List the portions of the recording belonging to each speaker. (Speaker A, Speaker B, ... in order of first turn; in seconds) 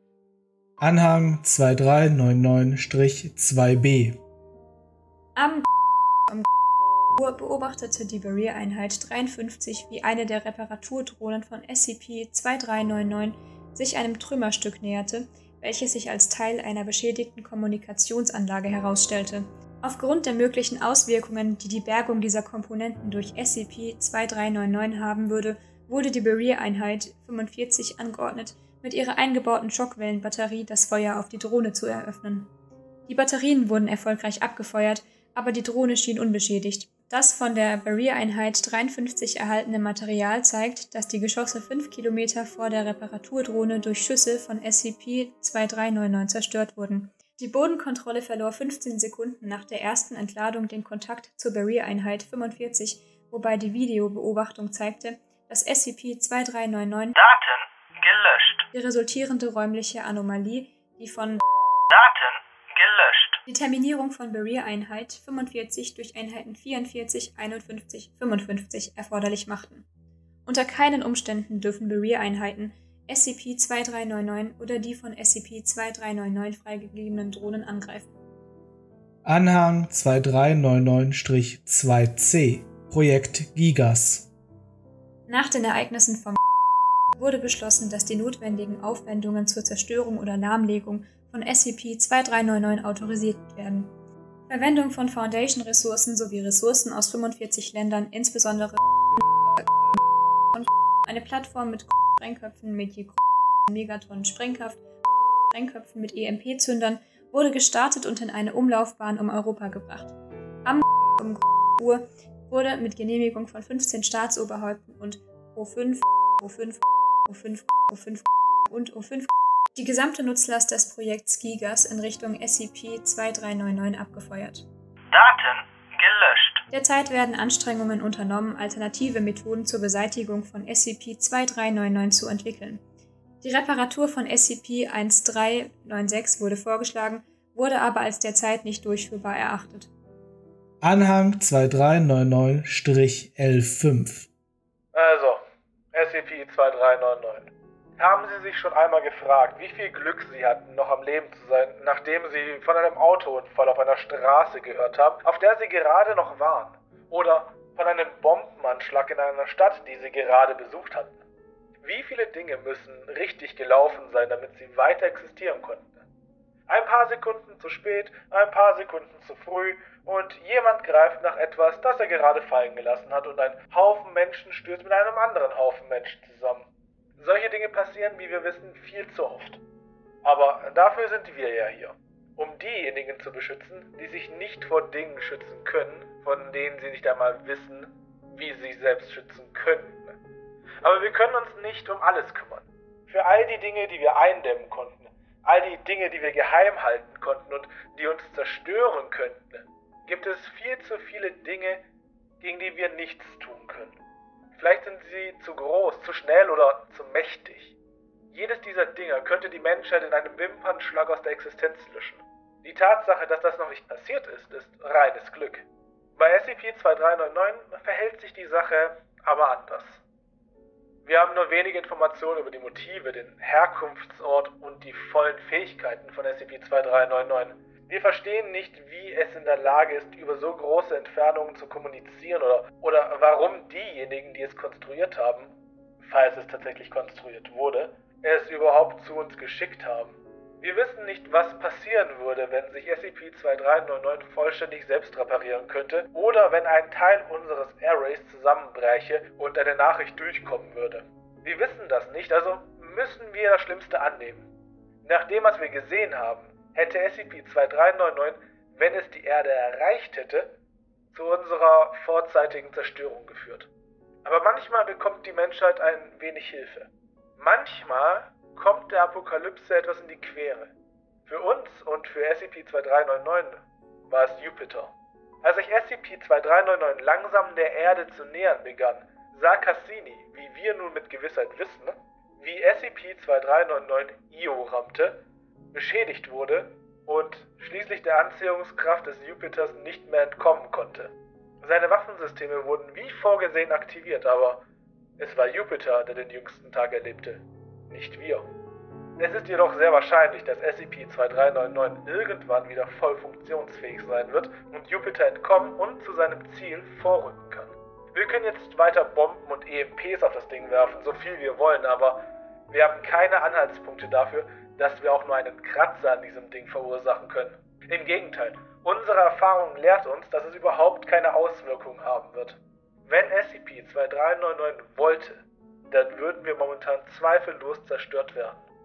Speaker A: 0.8-4.2, 58.3-58.5, 79.2-84.3, 140.8-144.3, 144.9-145.4, 145.9-161.2, 161.8-166.1, 166.7-179.6, 180.2-190.2, 190.8-201.8, 202.4-204.0, 204.5-207.8, 208.3-220.0, 221.0-254.5, 255.0-260.6, 261.1-263.7, 264.2-270.7, 271.2-285.2, 285.7-294.6, 295.2-298.5, 299.2-328.6
Speaker B: 5.3-5.6, 7.2-32.5, 33.1-57.2, 58.7-61.4, 63.5-69.8, 70.5-78.1, 85.3-86.4, 87.2-93.9, 94.5-98.8, 100.5-104.8, 105.5-124.7, 126.7-132.8, 133.4-139.9
Speaker C: 57.2-58.3, 61.9-63.2, 125.1-126.6